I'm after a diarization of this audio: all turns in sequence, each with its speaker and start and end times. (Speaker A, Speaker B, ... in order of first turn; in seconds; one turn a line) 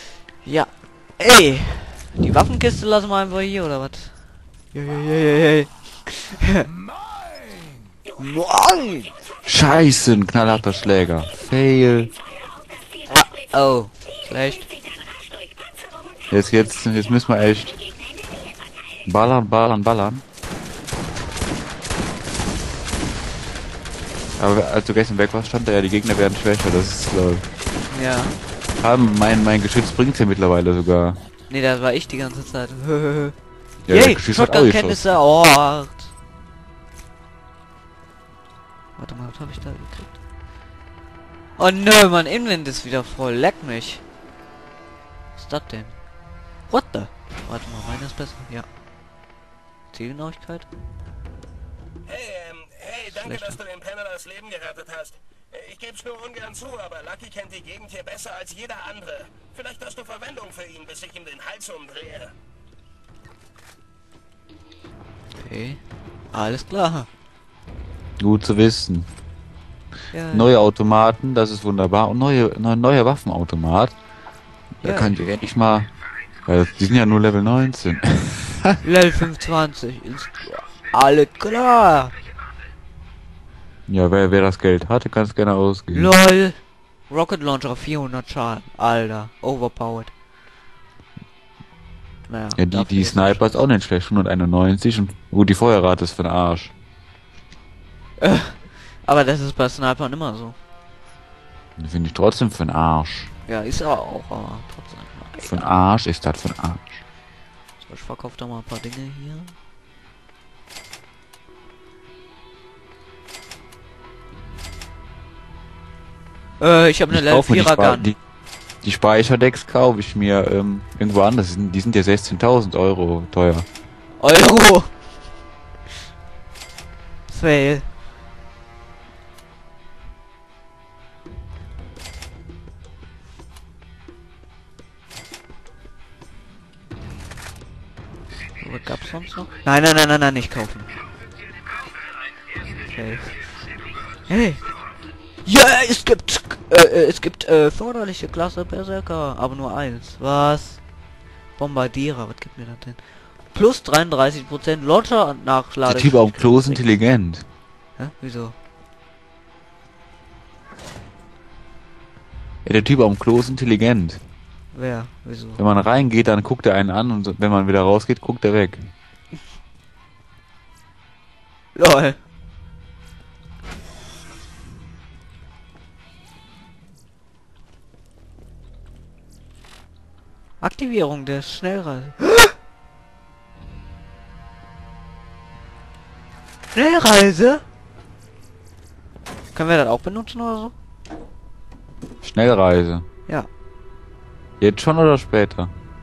Speaker A: 0.4-4.2
Speaker A: 4.7-6.7
Speaker A: 8.2-9.1
Speaker B: 9.4-12.2
Speaker A: 13.0-14.7
Speaker B: 16.3-17.8
Speaker B: 19.1-20.2
Speaker B: 24.4-27.4
Speaker A: 27.9-28.4
Speaker B: 28.8-31.2
Speaker A: 31.5-33.4
Speaker B: 33.9-35.0
Speaker A: 33.9-36.1
Speaker A: 39.0-40.1
Speaker A: 41.6-44.0
Speaker A: 45.4-46.0
Speaker A: 46.7-48.7
Speaker A: 49.9-50.7
Speaker A: 52.8-53.7
Speaker C: 55.9-59.2
Speaker C: 60.0-60.9
Speaker C: 61.7-62.0
Speaker A: 65.3-65.8
Speaker A: 66.3-67.1
Speaker B: 68.2-69.1
Speaker A: 70.1-70.5
Speaker B: 70.3-73.9
Speaker B: 74.8-75.9
Speaker A: 74.8-75.2
Speaker B: 76.5-78.8
Speaker A: 78.8-82.1
Speaker B: 83.9-86.1
Speaker A: 85.9-90.1
Speaker A: 92.3-93.6
Speaker B: 92.6-96.7
Speaker A: 98.2-100.6
Speaker B: 101.8-103.3
Speaker A: 103.5-105.7
Speaker B: 105.4-107.0
Speaker A: 107.8-109.5
Speaker A: 116.6-118.1
Speaker B: 117.1-118.2
Speaker B: 118.8-123.7
Speaker A: 124.2-124.9
Speaker A: 127.3-127.9
Speaker A: 138.6-140.9
Speaker A: 142.8-143.6
Speaker A: 144.3-144.6
Speaker A: 145.4-150.8
Speaker A: 151.6-156.8
Speaker B: 155.8-157.4
Speaker A: 158.0-158.6
Speaker B: 162.6-164.2
Speaker A: 164.7-165.6
Speaker B: 165.6-168.9
Speaker A: 171.7-172.2
Speaker A: 180.6-182.5
Speaker A: 186.7-187.6
Speaker A: 189.5-190.7
Speaker B: 192.2-193.0
Speaker B: 194.6-195.7